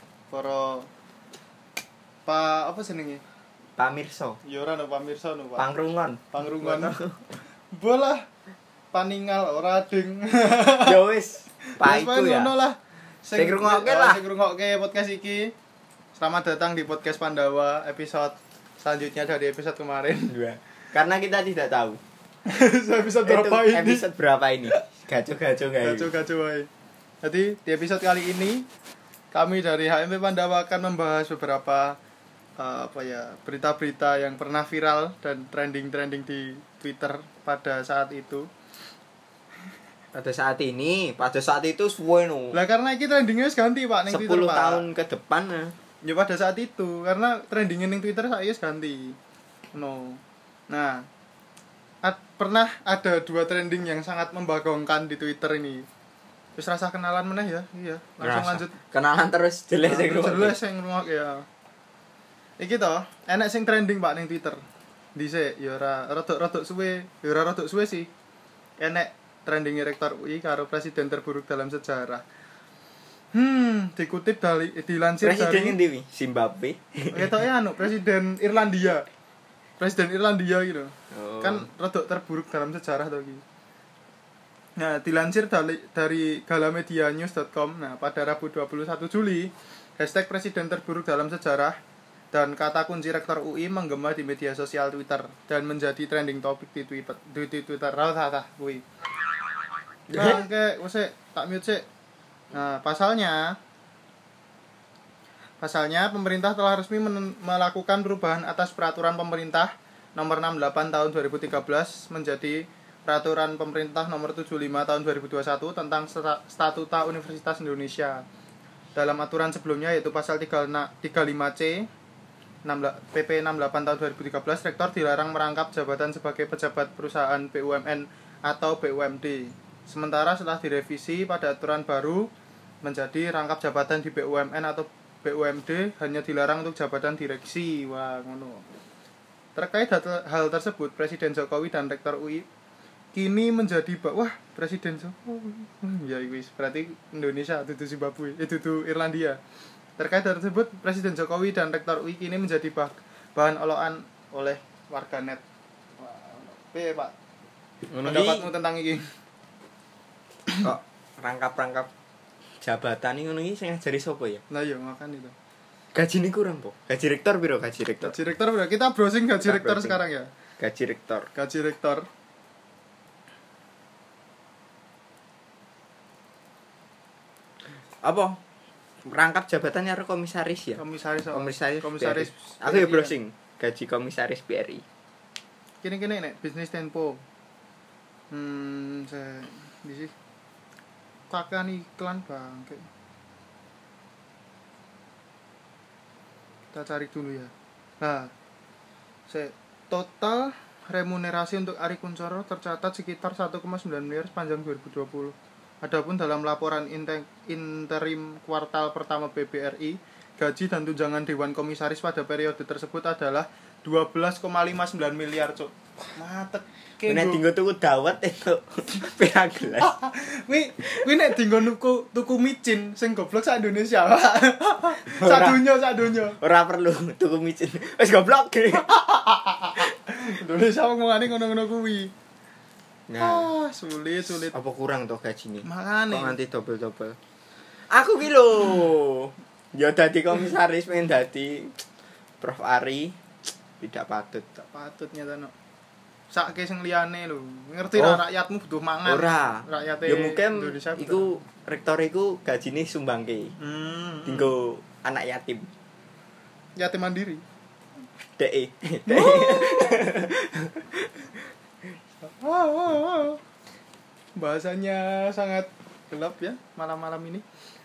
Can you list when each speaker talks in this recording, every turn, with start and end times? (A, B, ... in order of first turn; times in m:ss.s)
0:00.3-0:00.9 A
0:02.2-0:03.2 A
0:03.8-0:04.4 B
0:04.4-0:05.7 A
0:05.6-0:07.2 B
0:06.3-0:07.0 A
0:07.7-0:08.2 A
0:08.9-0:11.0 A
0:10.8-0:12.5 B
0:11.8-0:15.5 A
0:13.3-0:14.2 B
0:16.2-0:20.3 A
0:20.3-0:22.0 B
0:22.5-0:24.1 A
0:23.2-0:26.1 B
0:25.8-0:26.7 A
0:27.2-0:28.6 A
0:29.3-0:32.0 A
0:32.6-0:38.4 A
0:40.1-0:42.6 B
0:42.5-0:44.8 A
0:44.1-0:45.7 B
0:46.0-0:49.2 A
0:49.7-0:51.0 A
0:52.0-0:55.8 A
0:56.6-0:58.8 A
0:58.2-1:00.6 B
0:59.8-1:01.4 A
1:02.6-1:04.6 A
1:05.2-1:08.1 A
1:08.8-1:12.2 A
1:13.3-1:15.8 A
1:15.2-1:17.3 B
1:17.1-1:19.1 A
1:19.8-1:23.4 A
1:21.1-1:21.6 B
1:24.8-1:31.8 A
1:32.3-1:38.8 A
1:40.1-1:40.4 B
1:40.1-1:41.8 A
1:42.5-1:43.6 A
1:45.6-1:58.2 A
1:58.9-2:01.9 A
2:02.6-2:12.3 A
2:12.8-2:18.6 A
2:19.6-2:22.4 A
2:23.1-2:29.4 A
2:30.0-2:35.4 A
2:36.0-2:37.1 A
2:37.9-2:38.5 B
2:38.0-2:39.0 A
2:40.6-2:41.9 B
2:42.6-2:44.4 B
2:44.5-2:45.3 A
2:45.9-2:48.2 B
2:48.0-2:50.3 A
2:49.4-2:50.0 B
2:50.6-2:51.3 B
2:51.3-2:52.0 A
2:58.0-2:58.4 B
2:59.0-3:00.8 B
3:00.8-3:03.1 A
3:01.3-3:04.8 B
3:05.8-3:07.2 A
3:08.3-3:10.1 A
3:11.3-3:12.8 A
3:16.7-3:18.3 A
3:19.3-3:37.4 A
3:37.1-3:39.9 B
3:39.8-3:46.4 A
3:45.0-3:45.6 B
3:46.4-3:48.9 B
3:48.7-3:52.1 A
3:53.1-3:53.5 B
3:53.2-3:54.5 A
3:54.5-3:57.2 B
3:55.6-3:56.4 A
3:57.9-4:01.8 B
4:02.4-4:03.2 B
4:03.8-4:04.4 B
4:04.6-4:05.5 A
4:06.3-4:11.3 A
4:07.9-4:08.2 B
4:09.0-4:13.5 B
4:13.6-4:14.5 A
4:14.2-4:15.7 B
4:16.8-4:17.4 A
4:18.4-4:21.1 B
4:19.1-4:20.1 A
4:22.2-4:23.4 A
4:24.4-4:27.4 A